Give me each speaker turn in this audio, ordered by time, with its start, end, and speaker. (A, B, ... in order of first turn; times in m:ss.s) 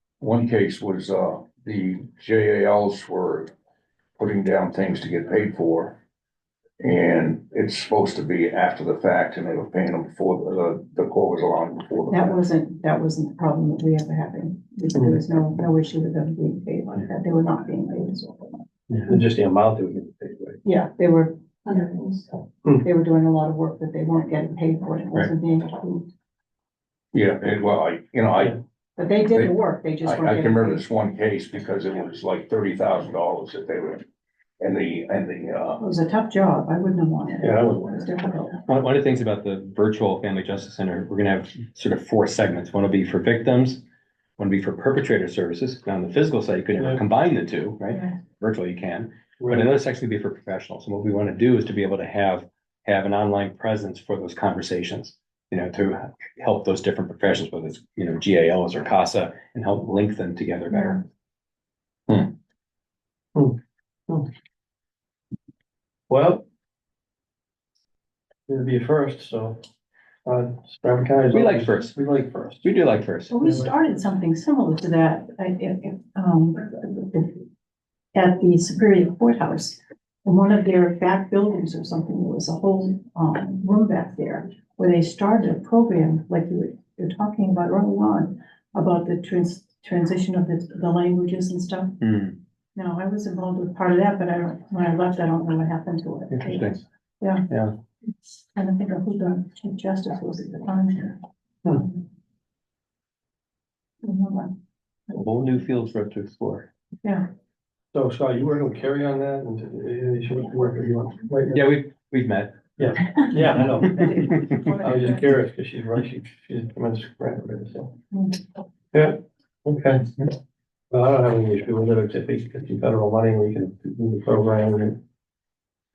0:00.2-0:03.5 A
0:04.2-0:06.0 A
0:06.8-0:12.5 A
0:12.1-0:18.7 B
0:18.9-0:20.6 C
0:20.6-0:26.1 B
0:27.1-0:28.6 A
0:29.0-0:30.8 B
0:29.3-0:34.0 A
0:34.6-0:35.8 A
0:35.8-0:38.6 B
0:37.4-0:37.9 C
0:38.7-0:43.8 D
0:44.4-1:01.0 D
1:06.1-1:06.4 C
1:08.5-1:09.6 C
1:10.2-1:12.6 C
1:11.3-1:12.0 D
1:12.6-1:13.3 D
1:13.3-1:17.4 B
1:13.4-1:13.7 C
1:18.1-1:32.0 B
1:32.0-1:32.4 D
1:32.7-1:37.4 B
1:36.3-1:36.8 D
1:37.5-1:37.7 D
1:38.6-1:42.0 B
1:44.0-1:44.6 B
1:45.1-1:46.7 D
1:47.9-1:51.6 C
1:51.5-1:52.8 D
1:52.8-1:54.1 C
1:53.5-1:55.4 B
1:54.8-1:57.9 C
1:58.1-1:58.4 B
1:58.9-2:00.3 C
2:00.9-2:05.0 C